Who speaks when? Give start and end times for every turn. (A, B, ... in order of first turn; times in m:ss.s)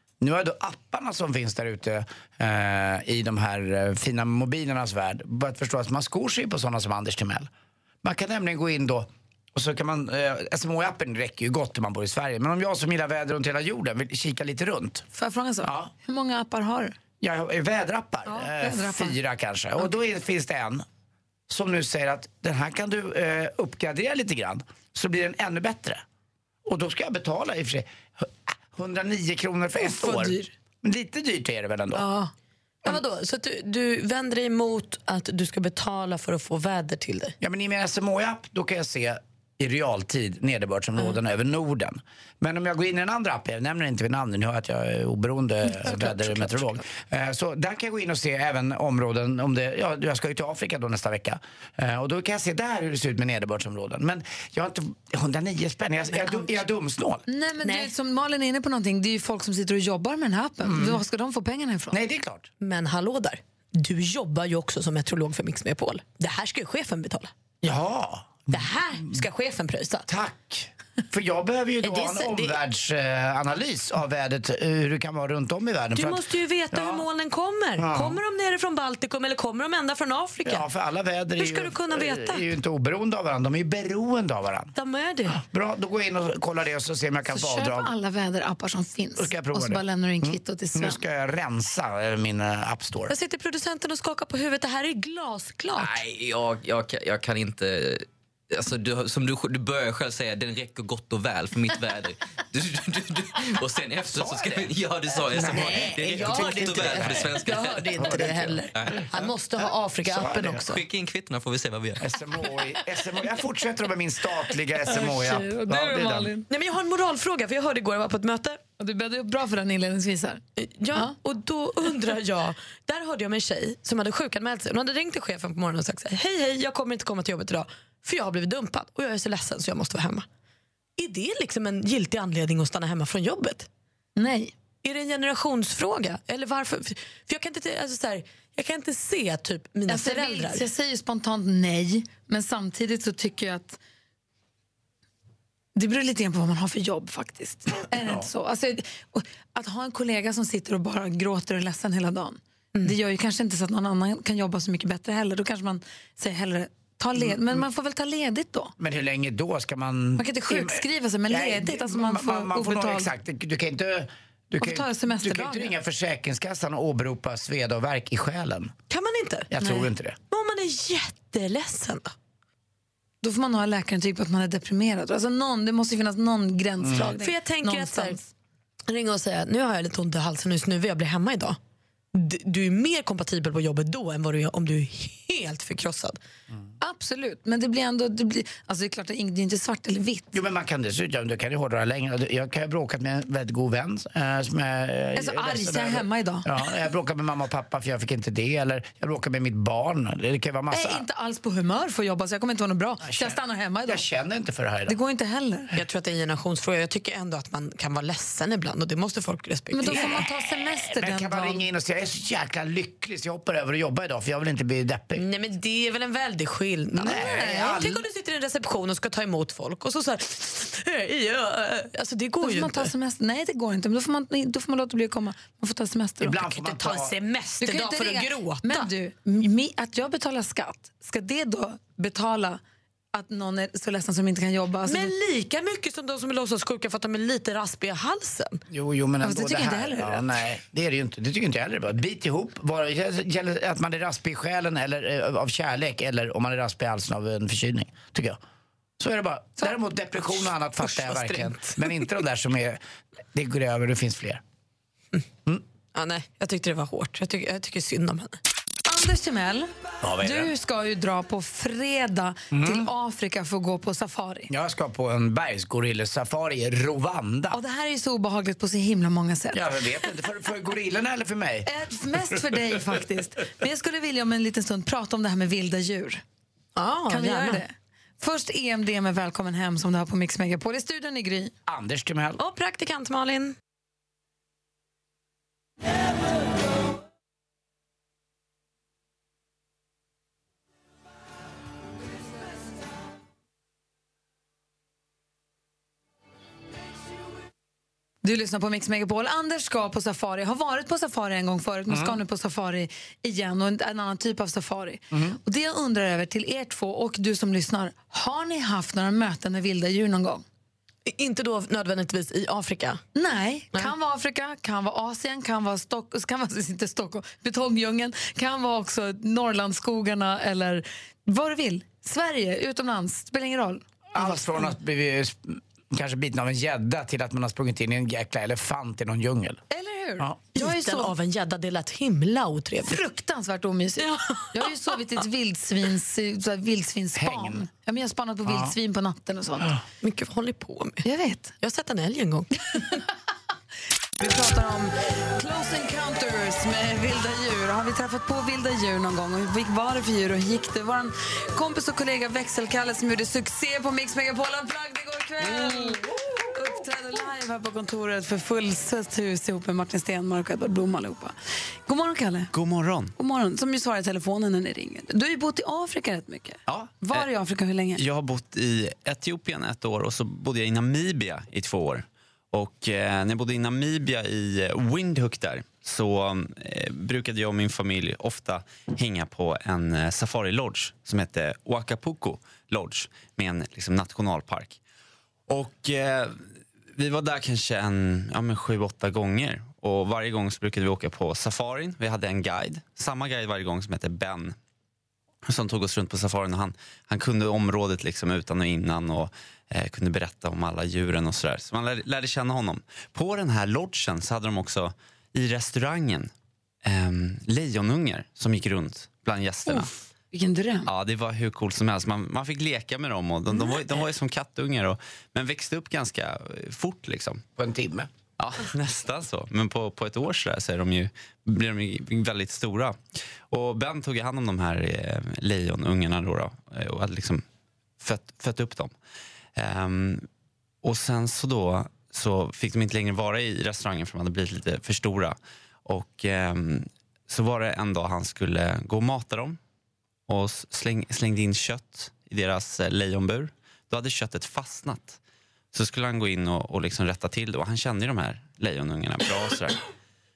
0:00.2-0:07.5 A
0:08.0-0:15.1 A
0:15.1-0:17.0 B
0:15.6-0:15.9 A
0:17.2-0:20.9 A
0:18.3-0:19.2 B
0:21.5-0:26.0 A
0:26.7-0:32.1 A
0:29.8-0:30.5 B
0:32.0-0:32.3 C
0:32.8-0:37.4 C
0:37.4-0:57.2 A
0:45.7-0:46.6 C
0:57.3-1:02.0 B
0:57.6-0:57.9 C
1:00.6-1:01.0 A
1:01.9-1:02.5 A
1:02.6-1:07.3 C
1:07.6-1:09.2 A
1:08.5-1:10.1 C
1:10.1-1:17.1 A
1:11.8-1:12.6 C
1:16.0-1:20.7 C
1:17.8-1:18.2 A
1:20.4-1:24.7 A
1:21.4-1:22.4 C
1:24.8-1:25.4 C
1:25.3-1:27.9 A
1:27.3-1:31.0 B
1:29.2-1:33.2 A
1:33.1-1:36.0 C
1:35.7-1:49.4 D
1:44.1-1:44.5 A
1:45.3-1:47.3 A
1:45.6-1:50.8 C
1:48.0-1:48.3 A
1:50.1-1:50.6 A
1:50.4-1:52.1 D
1:52.0-1:56.3 A
1:55.2-1:56.5 B
1:56.5-1:58.6 C
1:58.8-2:00.4 B
2:00.6-2:10.3 C
2:11.0-2:13.7 C
2:14.2-2:14.5 B
2:14.8-2:20.6 C
2:19.9-2:23.8 B
2:25.8-2:38.8 B
2:27.9-2:28.3 A
2:38.8-2:48.7 A
2:40.2-2:43.1 B
2:44.6-2:45.7 B
2:48.9-2:52.1 C
2:49.5-2:50.2 A
2:53.2-2:58.3 B
2:56.8-2:57.1 A
2:57.0-2:58.2 C
2:58.9-3:01.6 C
3:02.1-3:06.2 C
3:06.8-3:10.3 B
3:10.3-3:21.0 A
3:15.2-3:16.5 B
3:20.7-3:24.0 B
3:23.0-3:25.0 A
3:24.9-3:25.7 B
3:25.7-3:30.2 C
3:29.7-3:31.6 B
3:29.9-3:35.2 A
3:35.2-3:42.9 C
3:37.0-3:38.0 A
3:42.4-3:46.5 B
3:46.2-3:47.2 A
3:46.5-3:48.9 C
3:47.6-3:52.6 B
3:53.1-3:55.1 B
3:54.8-3:58.6 C
3:58.7-4:08.4 A
3:59.2-4:00.3 B
4:09.0-4:12.8 A
4:10.8-4:12.0 C
4:13.3-4:14.4 A
4:15.9-4:18.4 C
4:18.9-4:19.7 B
4:20.0-4:20.5 A
4:20.2-4:24.5 B
4:22.5-4:22.9 A
4:24.5-4:27.6 A
4:27.5-4:29.6 B
4:29.5-4:31.7 A
4:31.7-4:36.2 B
4:36.8-4:37.6 C
4:37.1-4:41.5 B
4:41.7-4:42.4 A
4:42.4-4:43.6 C
4:58.2-5:10.4 B
5:01.9-5:02.2 A
5:05.1-5:05.4 A
5:11.1-5:13.0 C
5:13.2-5:24.8 B
5:24.1-5:29.6 A
5:29.7-5:31.1 B
5:30.6-5:33.0 C
5:32.9-5:39.7 B
5:34.0-5:34.7 C
5:37.2-5:37.7 A
5:38.5-5:38.7 A
5:40.0-5:41.0 C
5:41.0-5:41.6 B
5:41.6-5:43.0 C
5:44.2-6:01.4 B
6:01.9-6:02.5 B
6:02.5-6:03.1 E
6:03.2-6:08.0 B
6:06.7-6:07.3 E
6:08.0-6:24.8 E
6:25.5-6:34.6 E
6:35.5-6:46.3 E
6:46.8-6:49.9 E
6:49.7-6:50.9 B
6:50.9-6:57.4 E
6:57.6-6:58.1 A
6:58.4-7:03.0 E
7:03.5-7:07.4 E
7:08.0-7:08.9 E
7:09.6-7:10.3 E
7:10.8-7:19.6 E
7:20.3-7:25.2 E
7:25.7-7:29.8 E